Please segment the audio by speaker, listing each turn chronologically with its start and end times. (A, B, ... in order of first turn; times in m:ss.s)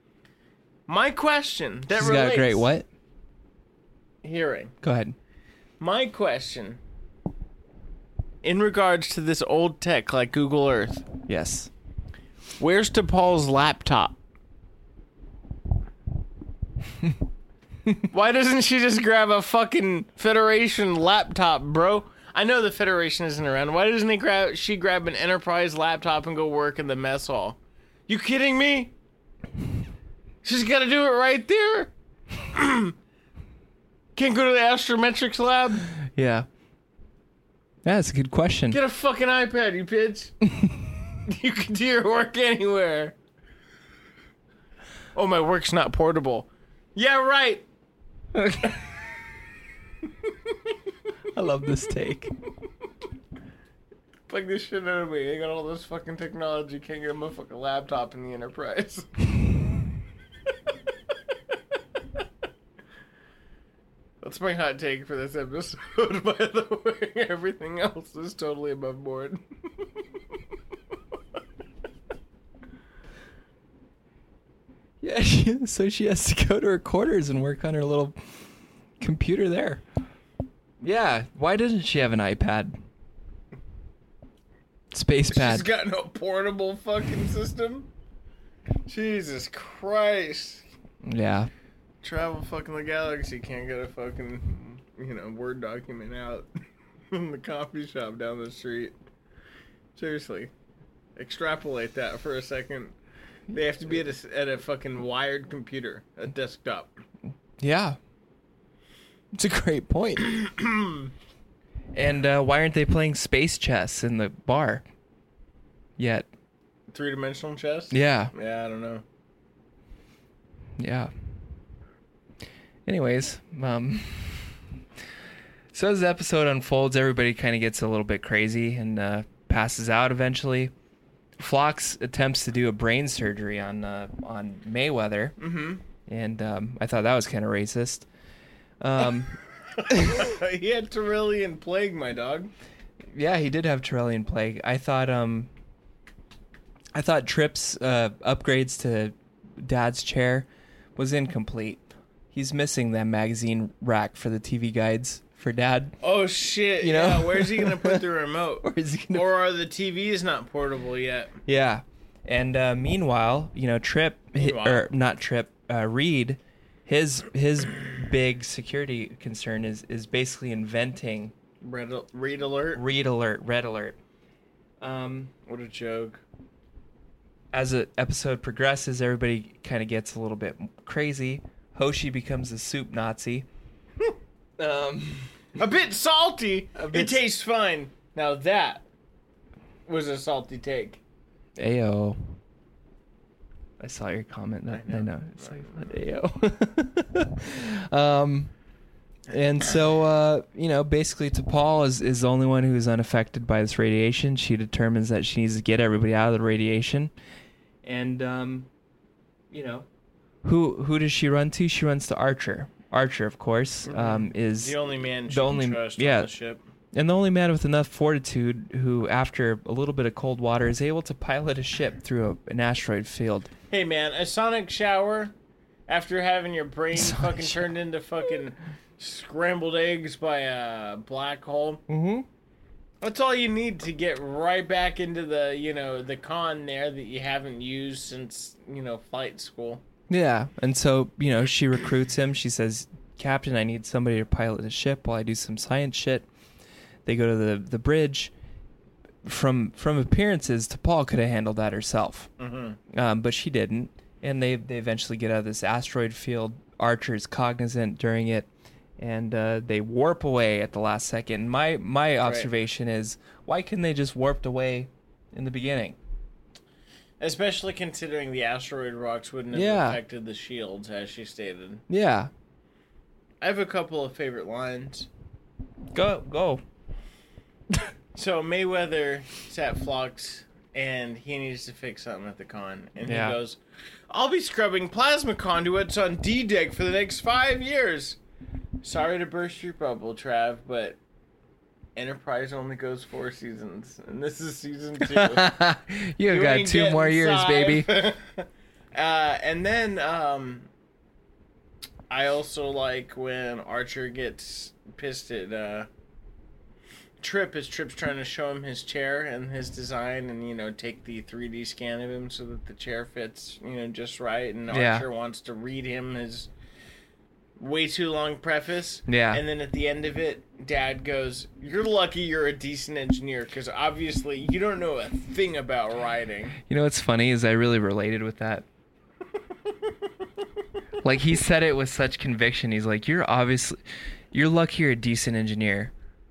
0:00.9-0:02.7 A
0:02.0-0:02.8 B
0:04.2-0:04.7 A
0:04.8-0:05.2 B
0:05.8-0:06.8 A
0:08.4-0:11.1 A
0:11.3-0:11.7 B
0:12.6-0:14.2 A
0:18.1-0:28.9 A
0:30.4-0:31.9 A
0:32.5-0:32.9 A
0:34.2-0:35.9 A
0:36.1-0:36.5 B
0:37.8-0:38.8 B
0:38.7-0:40.4 A
0:41.2-0:43.1 A
0:45.2-0:47.6 A
0:48.4-0:48.7 B
0:51.3-0:52.3 B
0:54.3-0:59.1 A
1:04.2-1:09.4 A
1:15.0-1:18.2 B
1:19.0-1:19.8 B
1:20.8-1:22.8 B
1:24.9-1:25.7 B
1:25.3-1:27.9 A
1:28.9-1:30.6 A
1:31.0-1:31.5 B
1:32.0-1:36.5 A
1:37.1-1:39.0 A
1:40.0-1:40.5 A
1:41.2-1:43.0 A
1:43.5-1:46.9 A
1:47.6-1:48.0 B
1:49.3-1:50.4 B
1:50.4-1:51.1 A
1:51.9-1:54.8 B
1:56.0-1:56.3 B
1:56.9-1:59.0 A
1:57.9-1:58.3 B
2:00.8-2:01.1 B
2:02.9-2:04.5 B
2:05.7-2:10.7 B
2:11.4-2:15.4 B
2:15.4-2:15.8 A
2:16.1-2:18.1 B
2:18.8-2:20.3 B
2:19.8-2:22.5 A
2:23.1-2:25.5 B
2:26.9-2:31.8 B
2:32.3-2:36.0 B
2:36.0-2:41.3 A
2:36.8-2:38.0 B
2:38.6-2:39.3 B
2:41.5-2:51.3 B
2:44.4-2:44.9 A
2:51.6-2:52.8 A
2:52.8-2:54.0 B
2:54.8-2:55.3 B
2:55.5-2:56.2 A
2:57.5-3:03.5 B
3:04.6-3:05.3 B
3:05.6-3:08.8 A
3:06.8-3:07.2 B
3:09.9-3:11.0 A
3:11.6-3:12.2 B
3:13.8-3:18.5 B
3:14.7-3:15.6 A
3:19.3-3:27.1 B
3:27.8-3:28.7 B
3:29.5-3:29.9 B
3:30.4-3:34.8 B
3:33.9-3:36.6 A
3:35.3-3:36.3 B
3:36.9-3:43.5 B
3:43.7-3:45.3 A
3:45.9-3:51.8 A
3:46.9-3:47.7 B
3:51.9-3:52.3 B
3:53.0-3:59.8 A
4:00.1-4:06.3 B
4:07.1-4:08.3 B
4:09.2-4:12.3 B
4:12.4-4:12.8 A
4:12.9-4:18.5 B
4:19.0-4:26.0 B
4:22.2-4:22.5 A
4:27.2-4:31.8 A
4:29.5-4:30.0 B
4:31.9-4:32.3 B
4:33.4-4:35.1 A
4:35.9-4:36.6 B
4:38.2-4:43.6 A
4:43.0-4:43.4 B
4:44.1-4:48.2 A
4:48.8-4:51.0 A
4:52.0-4:55.5 A
4:55.0-4:57.9 B
4:56.3-5:00.7 A
5:02.1-5:05.9 A
5:07.2-5:16.5 A
5:14.7-5:15.1 B
5:17.6-5:26.6 A
5:19.1-5:19.4 B
5:26.7-5:28.6 B
5:31.0-5:33.8 B
5:34.3-5:35.9 B